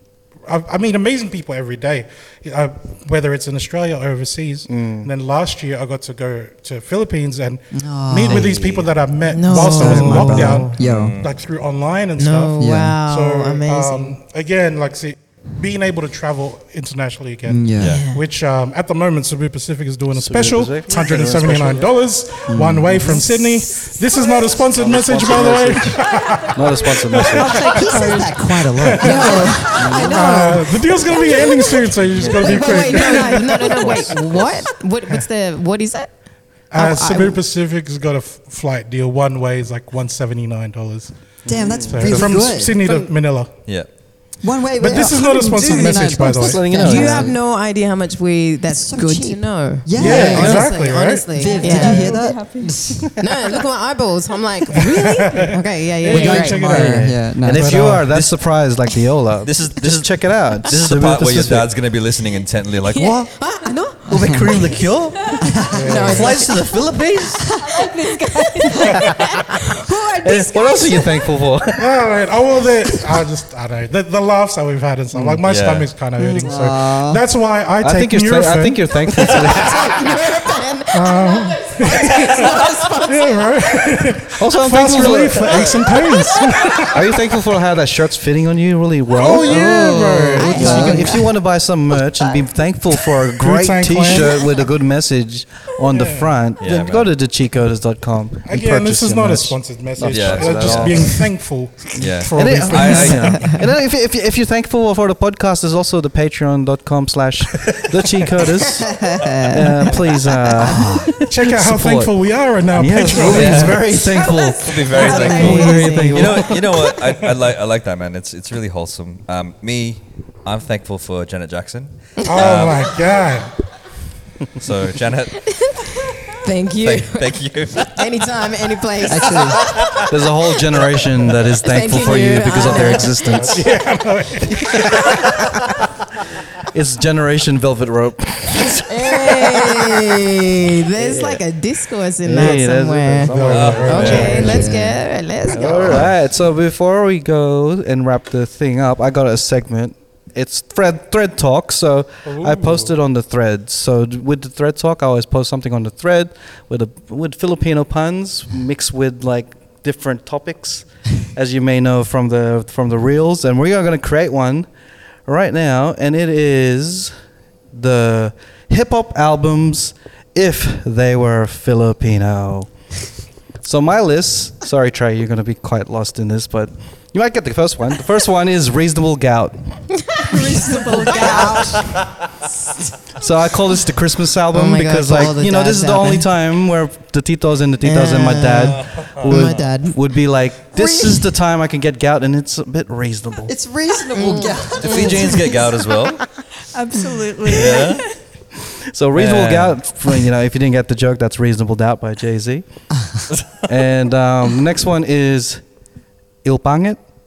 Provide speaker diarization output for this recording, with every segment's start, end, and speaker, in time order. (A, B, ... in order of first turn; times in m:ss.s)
0:00.5-0:34.1 A
0:04.7-0:05.1 B
0:07.7-0:08.9 C
0:09.3-0:10.7 D
0:09.6-0:11.2 C
0:10.8-0:11.3 E
0:12.2-0:14.2 D
0:12.6-0:13.0 C
0:17.5-0:18.0 C
0:17.8-0:18.0 E
0:17.8-0:18.3 D
0:20.1-0:22.0 B
0:22.5-0:23.1 C
0:23.0-0:24.0 D
0:24.7-0:27.8 B
0:27.3-0:30.9 C
0:27.7-0:28.2 D
0:29.0-0:36.1 D
0:29.7-0:30.3 B
0:32.0-0:34.2 B
0:32.4-0:33.0 C
0:36.7-0:41.1 A
0:36.8-0:37.4 D
0:41.4-0:42.4 B
0:41.5-0:43.1 C
0:41.8-0:43.5 A
0:44.4-0:47.4 C
0:44.8-0:46.8 A
0:45.2-0:52.2 D
0:45.7-0:47.3 B
0:48.7-0:50.8 C
0:50.0-0:51.3 A
0:50.0-0:50.4 B
0:51.3-0:53.1 C
0:51.5-0:53.1 F
0:53.2-0:56.6 D
0:54.7-0:58.1 A
0:56.1-0:57.9 C
0:56.1-1:01.7 B
0:58.1-0:58.4 E
0:59.4-1:03.3 E
1:02.9-1:06.6 D
1:04.1-1:04.8 C
1:04.1-1:05.4 E
1:05.4-1:06.3 C
1:05.7-1:06.3 A
1:06.0-1:07.4 E
1:07.6-1:07.9 C
1:07.6-1:11.2 D
1:10.2-1:11.9 B
1:11.8-1:19.9 A
1:15.4-1:15.9 E
1:16.2-1:16.4 B
1:16.4-1:17.2 C
1:17.8-1:19.9 B
1:19.4-1:24.1 D
1:20.9-1:27.1 A
1:24.4-1:25.9 B
1:25.7-1:26.9 D
1:26.9-1:41.2 B
1:29.1-1:31.0 A
1:30.4-1:31.4 D
1:30.6-1:31.1 C
1:33.4-1:34.5 A
1:35.9-1:36.3 A
1:36.6-1:37.1 E
1:38.5-1:43.5 A
1:40.1-1:41.2 E
1:42.0-1:43.5 E
1:42.3-1:52.1 B
1:48.8-1:50.0 D
1:50.6-1:51.1 C
1:51.2-1:54.0 A
1:52.7-1:56.9 B
1:53.2-2:02.9 E
1:54.0-1:56.6 D
1:56.9-1:57.3 A
2:02.2-2:03.5 A
2:04.6-2:05.4 E
2:05.5-2:10.0 D
2:06.8-2:08.1 E
2:09.0-2:09.8 C
2:10.1-2:13.6 B
2:11.6-2:13.7 D
2:12.7-2:15.5 A
2:16.7-2:19.2 B
2:18.9-2:26.0 D
2:21.0-2:21.4 B
2:22.2-2:24.7 B
2:23.2-2:24.6 A
2:23.5-2:24.4 E
2:24.2-2:25.0 C
2:25.5-2:44.7 B
2:25.8-2:26.1 E
2:32.2-2:32.9 A
2:45.3-2:47.1 B
2:47.7-2:52.7 B
2:53.6-2:59.6 B
3:00.3-3:01.8 F
3:00.3-3:02.0 C
3:01.2-3:01.6 D
3:03.2-3:13.5 B
3:04.5-3:06.3 D
3:07.8-3:10.0 D
3:09.3-3:09.6 E
3:10.8-3:11.2 C
3:13.5-3:15.7 C
3:14.1-3:15.4 D
3:14.8-3:16.2 E
3:16.7-3:18.1 F
3:17.5-3:18.1 E
3:18.9-3:22.6 B
3:19.2-3:19.8 E
3:23.0-3:23.2 C
3:23.7-3:25.6 B
3:26.4-3:27.0 B